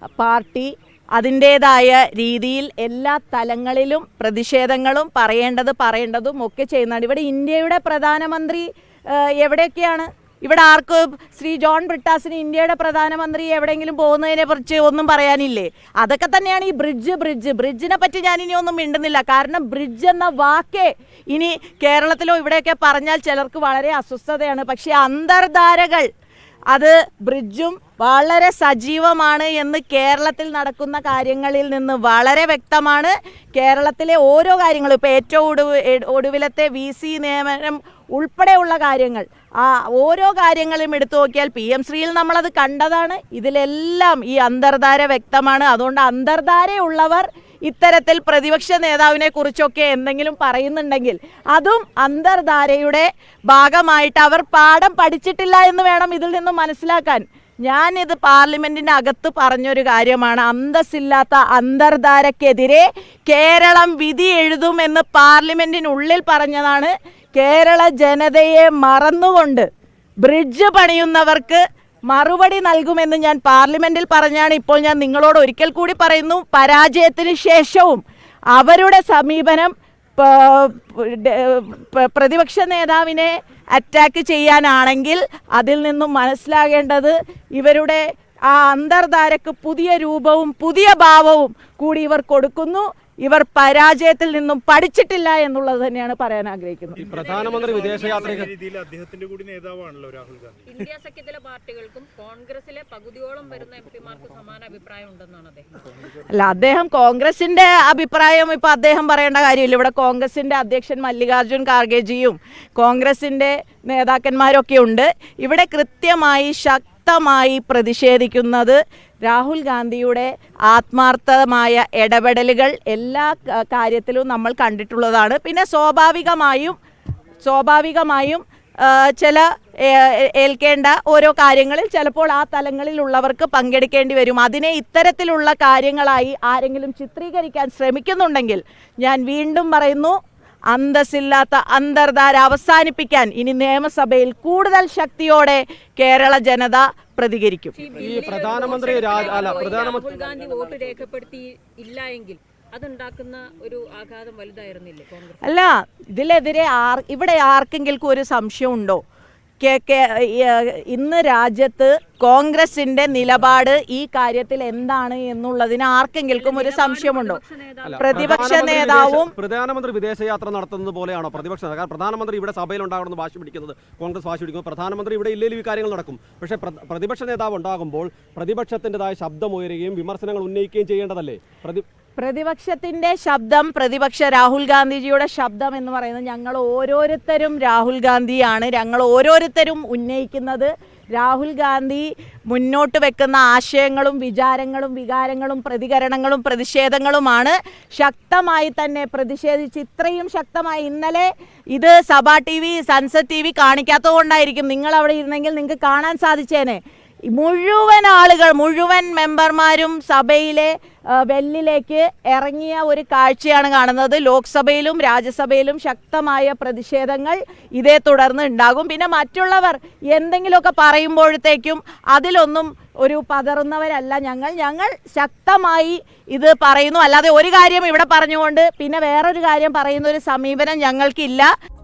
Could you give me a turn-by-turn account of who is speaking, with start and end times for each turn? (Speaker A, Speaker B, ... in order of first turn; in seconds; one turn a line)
Speaker A: 0.2-26.1
Speaker A: 26.7-69.7
Speaker A: 70.2-78.0
Speaker A: 78.5-97.0
Speaker B: 97.0-100.6
Speaker C: 97.0-98.5
Speaker D: 97.0-98.5
Speaker C: 100.7-105.7
Speaker A: 106.3-126.8
Speaker A: 127.4-140.2
Speaker A: 140.7-147.8
Speaker C: 147.7-155.6
Speaker D: 148.0-150.0
Speaker A: 155.4-159.0
Speaker A: 159.6-167.4
Speaker C: 166.3-169.1
Speaker D: 167.8-181.8
Speaker A: 168.0-169.3
Speaker A: 182.2-206.8
Speaker A: 207.3-231.5